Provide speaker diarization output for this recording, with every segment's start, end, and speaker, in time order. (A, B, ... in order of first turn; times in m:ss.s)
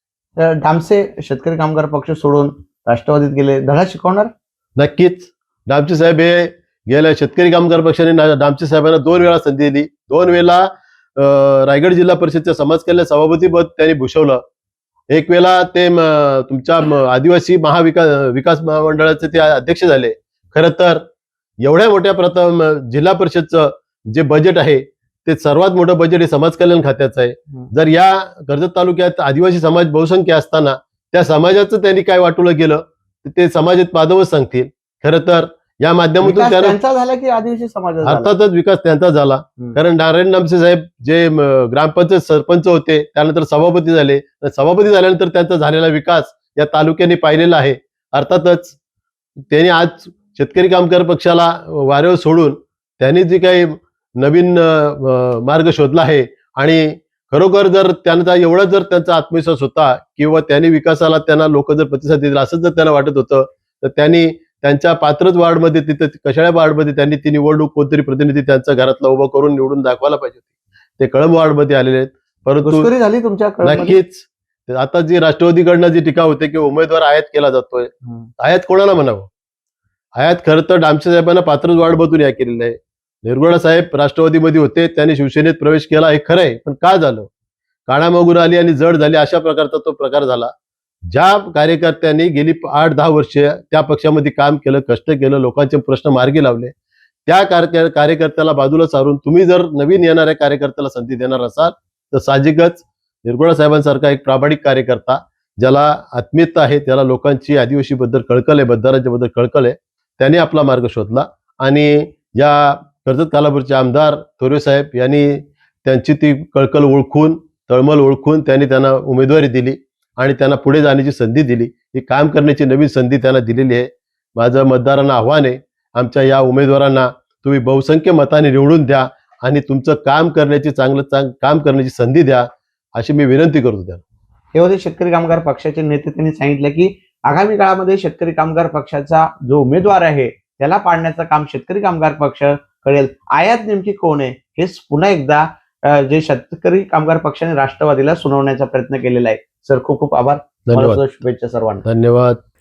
0:00.4-0:04.3 A
0:04.8-0:14.4 B
0:15.1-0:21.0 B
0:21.6-0:36.8 B
0:36.2-0:38.3 A
0:38.0-0:48.8 B
0:49.5-1:10.5 B
1:11.0-1:12.9 B
1:12.6-1:14.0 A
1:13.6-1:19.3 B
1:20.2-1:27.3 B
1:27.9-1:30.5 B
1:31.1-1:36.7 B
1:37.2-2:14.0 B
2:14.5-2:31.8 A
2:30.7-2:31.0 B
2:31.8-2:32.4 B